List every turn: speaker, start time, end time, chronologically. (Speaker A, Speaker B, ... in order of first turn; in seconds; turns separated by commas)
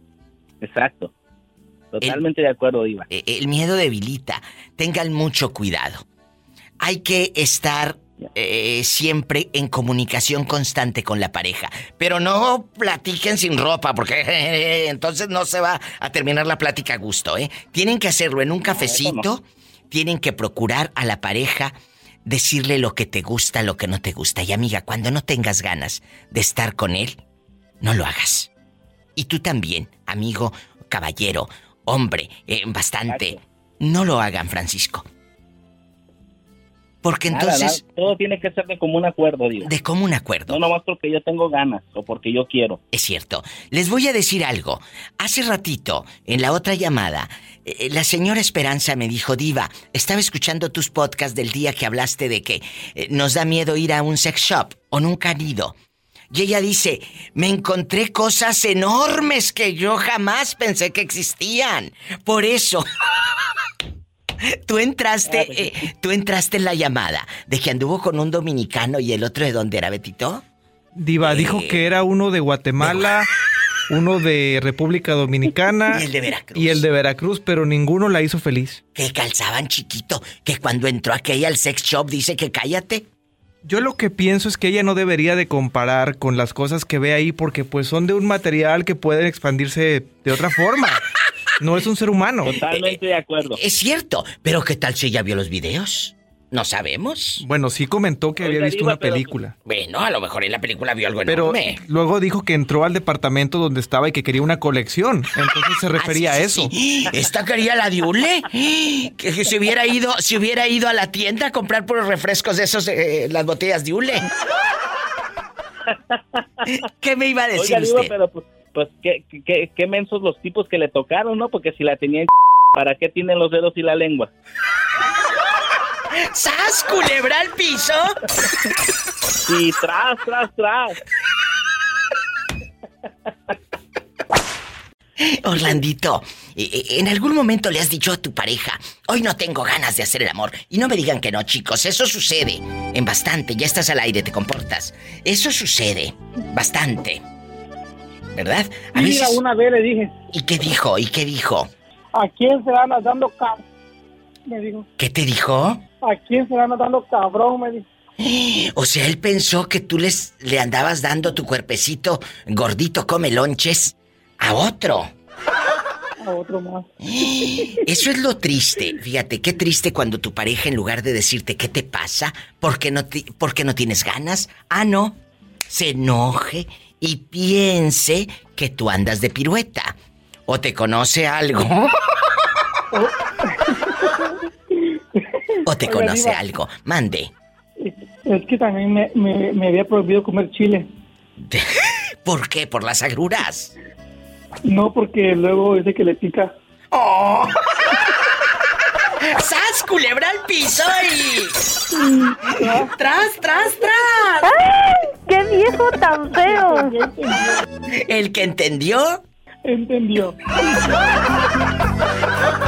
Speaker A: 0.6-1.1, Speaker A: 1.9-3.1, Speaker B: 3.1-6.0, Speaker B: 6.8-27.2, Speaker A: 18.7-19.2, Speaker B: 27.8-28.5, Speaker B: 29.1-35.0, Speaker A: 33.1-33.4, Speaker B: 37.0-37.8, Speaker A: 37.3-39.7, Speaker B: 39.6-40.6, Speaker A: 40.5-42.8, Speaker B: 42.9-55.8, Speaker B: 56.3-62.8, Speaker B: 64.6-70.4, Speaker A: 65.2-65.8, Speaker C: 70.9-73.3, Speaker B: 71.2-71.9, Speaker B: 72.8-73.2, Speaker C: 73.9-76.0, Speaker B: 75.9-76.8, Speaker C: 76.5-78.8, Speaker B: 78.9-83.0, Speaker C: 83.6-91.0, Speaker C: 91.6-92.6, Speaker A: 92.4-93.6, Speaker B: 92.6-97.4, Speaker C: 97.4-99.5, Speaker A: 98.4-99.4, Speaker B: 99.6-101.8, Speaker C: 101.3-106.7, Speaker B: 105.9-114.3, Speaker A: 115.9-116.5, Speaker B: 116.7-118.1, Speaker A: 117.5-124.3, Speaker B: 126.2-128.2, Speaker A: 129.5-131.0, Speaker B: 135.2-147.2, Speaker B: 148.3-149.4, Speaker D: 148.9-150.1, Speaker B: 150.3-151.7, Speaker D: 152.2-153.6, Speaker D: 154.5-154.9, Speaker B: 155.0-155.8, Speaker D: 156.0-157.8, Speaker B: 158.2-165.1, Speaker D: 166.2-166.8, Speaker B: 167.0-175.2, Speaker B: 175.7-179.9, Speaker B: 180.5-181.9, Speaker D: 182.9-184.2, Speaker B: 185.7-187.3, Speaker D: 185.8-186.4, Speaker D: 187.8-190.9, Speaker B: 191.4-193.7, Speaker D: 194.7-196.5, Speaker B: 196.9-197.5, Speaker B: 199.2-201.6, Speaker D: 202.3-202.9, Speaker B: 202.7-204.6, Speaker E: 204.4-206.9, Speaker D: 206.4-207.6, Speaker B: 208.0-209.2, Speaker D: 209.7-210.6